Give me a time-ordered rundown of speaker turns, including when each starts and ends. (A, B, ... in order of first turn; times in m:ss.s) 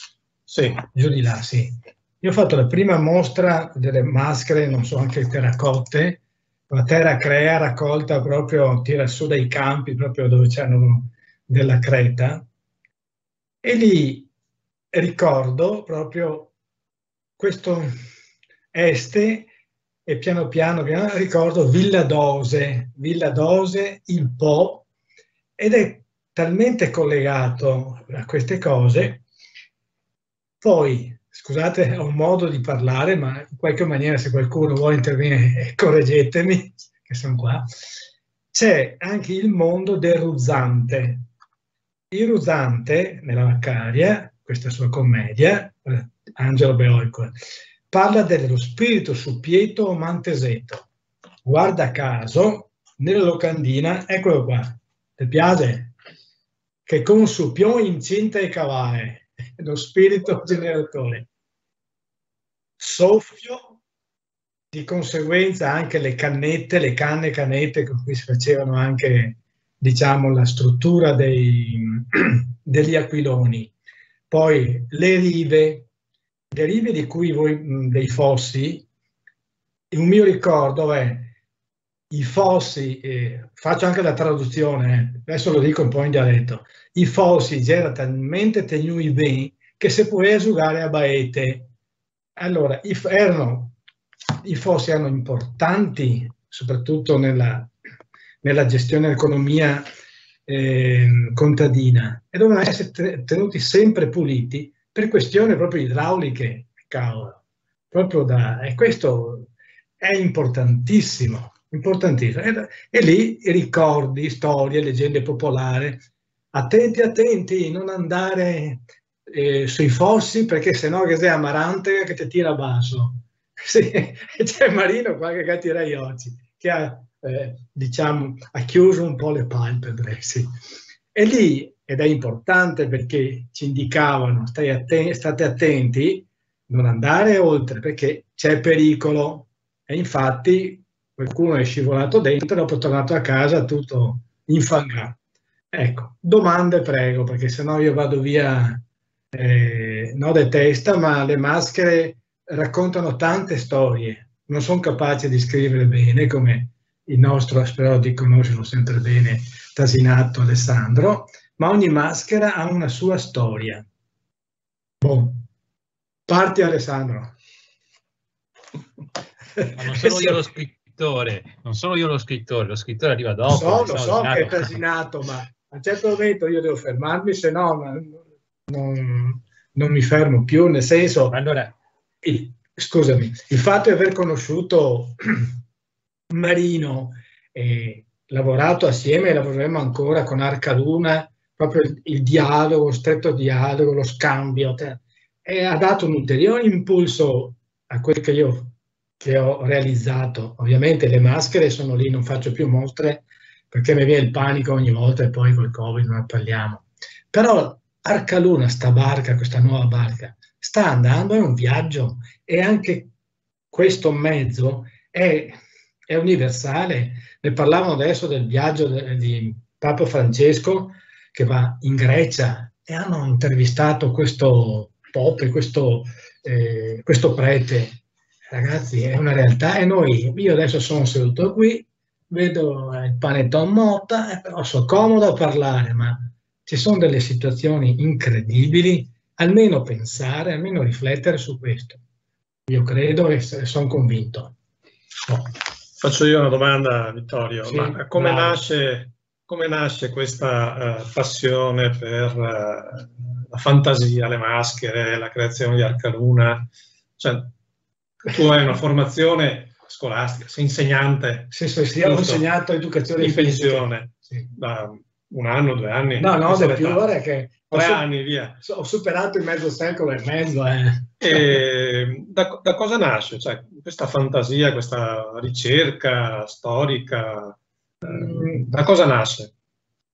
0:00.5-0:00.8 A
0:00.8-0:12.4 B
0:13.6-0:14.3 B
0:14.9-0:16.5 B
0:17.4-0:17.9 B
0:18.7-0:19.5 B
0:20.0-0:24.9 B
0:25.6-0:29.2 B
0:30.6-0:37.7 B
0:38.5-0:41.3 B
0:42.1-0:47.3 B
0:47.9-0:50.9 B
0:51.4-0:55.9 B
0:56.8-1:01.3 B
1:02.8-1:03.8 B
1:04.7-1:13.7 B
1:14.3-1:15.9 B
1:16.5-1:18.8 B
1:19.9-1:21.3 B
1:22.1-1:31.7 B
1:32.4-1:33.8 B
1:34.4-1:37.7 B
1:38.4-1:39.8 B
1:40.5-1:47.4 B
1:47.9-2:10.5 B
2:11.1-2:25.2 B
2:25.7-2:43.8 B
2:45.0-2:45.4 B
2:46.3-2:47.4 B
2:49.6-2:50.4 B
2:49.8-2:54.8 C
2:53.5-3:01.4 B
3:01.3-3:01.8 C
3:02.2-3:05.6 B
3:06.3-3:33.1 B
3:33.7-4:02.0 B
4:02.7-4:04.5 B
4:05.3-4:17.5 A
4:07.6-4:08.7 B
4:18.2-4:22.4 A
4:21.5-4:24.4 B
4:23.2-4:27.1 A
4:26.2-4:28.1 B
4:27.7-4:28.6 A
4:28.6-4:31.4 B
4:31.2-4:39.5 A
4:38.0-4:38.6 B